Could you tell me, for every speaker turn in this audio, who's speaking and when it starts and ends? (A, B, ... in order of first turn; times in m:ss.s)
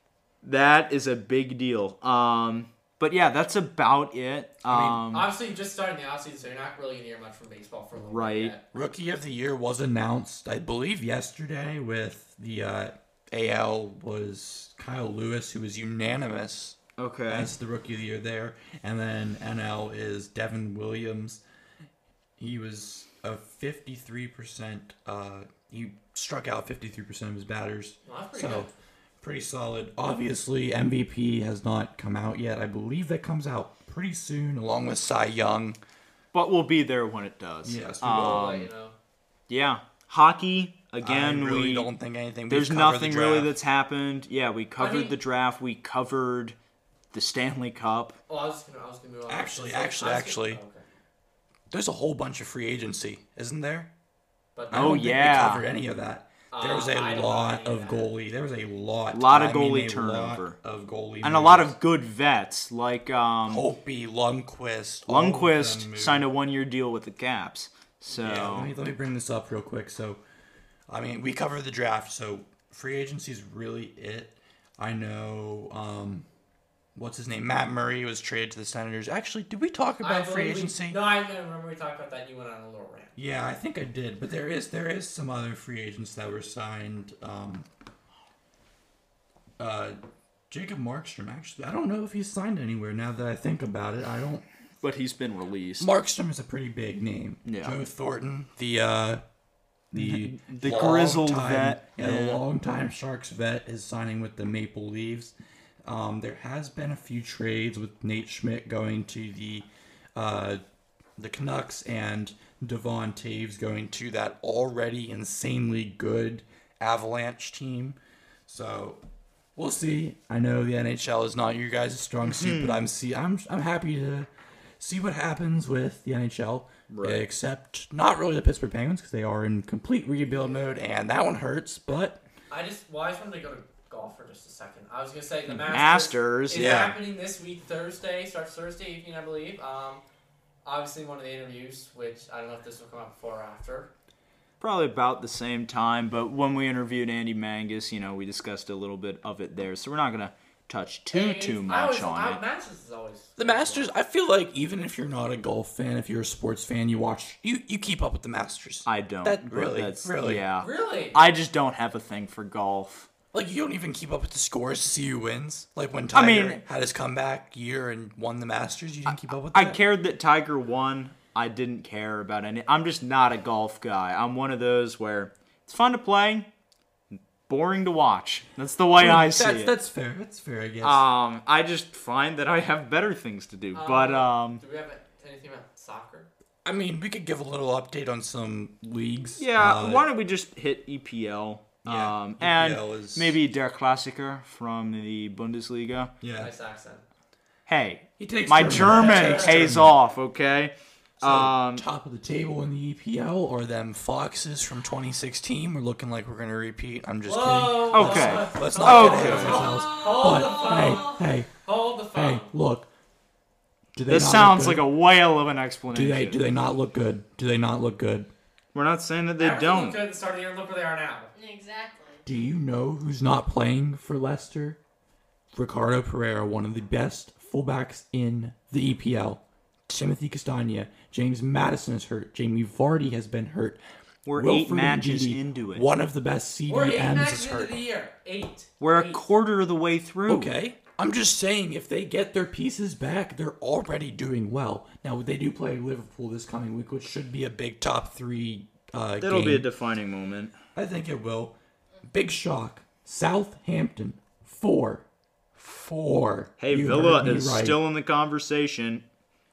0:00.4-0:05.3 A
0:04.6-0:05.0 B
0:05.1-0:08.6 C
0:08.0-0:08.5 A
0:08.7-0:16.8 B
0:17.0-0:17.5 A
0:17.3-0:21.4 B
0:22.4-0:28.7 B
0:28.0-0:28.7 C
0:29.2-0:35.8 B
0:36.3-0:38.7 A
0:37.6-0:38.6 B
0:38.0-0:38.9 C
0:39.5-0:41.9 A
0:41.0-0:43.5 B
0:42.5-0:46.5 A
0:44.8-0:45.2 C
0:47.1-0:48.2 A
0:48.3-0:50.8 C
0:49.3-0:50.6 B
0:51.7-0:53.9 B
0:54.6-0:55.0 C
0:54.7-1:01.7 B
0:54.7-0:55.7 A
0:56.5-0:58.1 C
0:59.1-1:00.6 A
1:01.2-1:03.6 A
1:03.5-1:06.3 B
1:05.1-1:08.7 A
1:08.1-1:10.2 B
1:10.9-1:16.3 B
1:16.9-1:21.0 B
1:20.0-1:23.2 C
1:23.2-1:27.7 B
1:29.6-1:30.0 B
1:30.5-1:34.4 B
1:34.8-1:35.9 A
1:35.8-1:39.2 B
1:37.4-1:37.8 A
1:39.9-1:45.3 B
1:39.9-1:42.4 A
1:45.8-1:50.6 B
1:51.2-1:59.0 B
1:59.6-2:04.3 B
2:02.2-2:02.8 A
2:04.8-2:12.2 B
2:06.9-2:07.2 A
2:12.5-2:20.0 C
2:15.7-2:16.9 A
2:16.5-2:17.0 B
2:20.6-2:23.9 C
2:24.6-2:32.4 A
2:31.1-2:33.9 C
2:33.4-2:40.4 B
2:38.8-2:43.1 A
2:40.6-2:41.2 C
2:43.3-2:49.8 B
2:46.1-2:46.6 A
2:49.5-2:56.5 A
2:57.1-2:59.7 A
2:59.0-3:01.0 B
3:00.8-3:04.6 A
3:03.7-3:06.3 C
3:06.6-3:10.1 B
3:09.4-3:16.1 A
3:11.8-3:13.4 B
3:16.2-3:16.5 B
3:16.3-3:17.0 C
3:17.7-3:21.8 A
3:18.2-3:19.9 B
3:18.8-3:19.7 C
3:21.2-3:31.5 B
3:27.2-3:32.5 C
3:27.9-3:29.7 A
3:29.8-3:31.1 D
3:32.1-3:32.9 B
3:33.9-3:34.9 B
3:34.1-3:36.4 A
3:35.9-3:38.3 B
3:38.7-3:40.0 A
3:39.4-3:41.3 C
3:41.3-3:42.2 D
3:42.2-3:44.8 B
3:45.5-3:53.8 B
3:54.2-3:55.9 A
3:54.3-3:57.8 B
3:56.7-3:59.2 C
3:58.8-4:00.5 A
4:00.3-4:09.7 B
4:09.2-4:10.5 A
4:10.7-4:11.6 B
4:12.1-4:15.0 B
4:15.6-4:17.8 B
4:16.6-4:19.0 A